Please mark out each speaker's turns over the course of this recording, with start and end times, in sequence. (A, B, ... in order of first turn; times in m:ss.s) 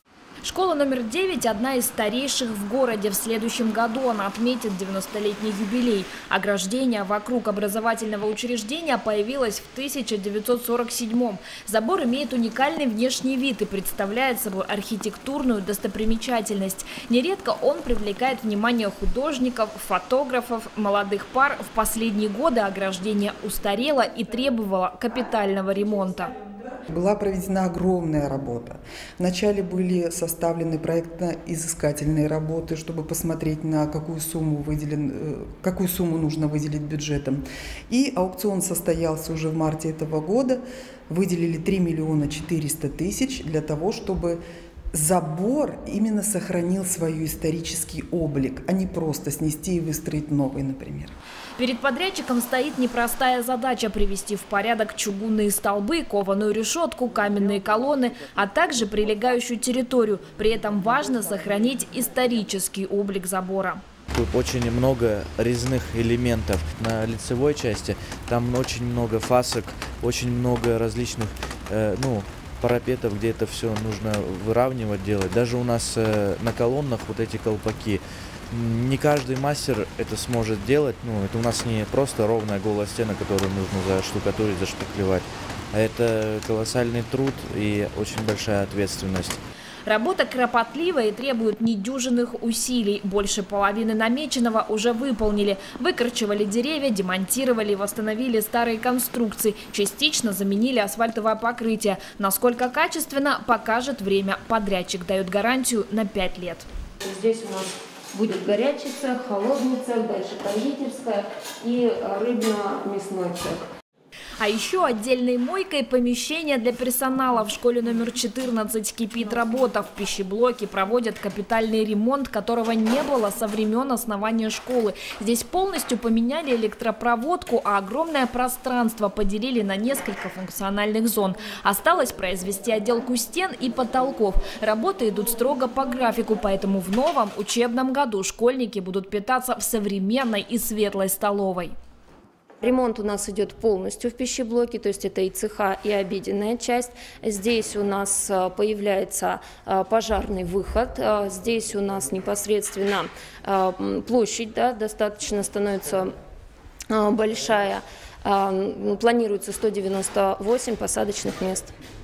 0:00.4-0:26.3 A
0:26.9-0:44.4 B
0:44.9-0:51.1 B
0:51.6-1:03.8 A
1:04.1-1:29.4 C
1:29.8-1:46.6 A
1:47.0-1:53.7 D
1:54.4-2:21.7 A
2:22.6-2:36.1 D
2:36.9-2:41.7 D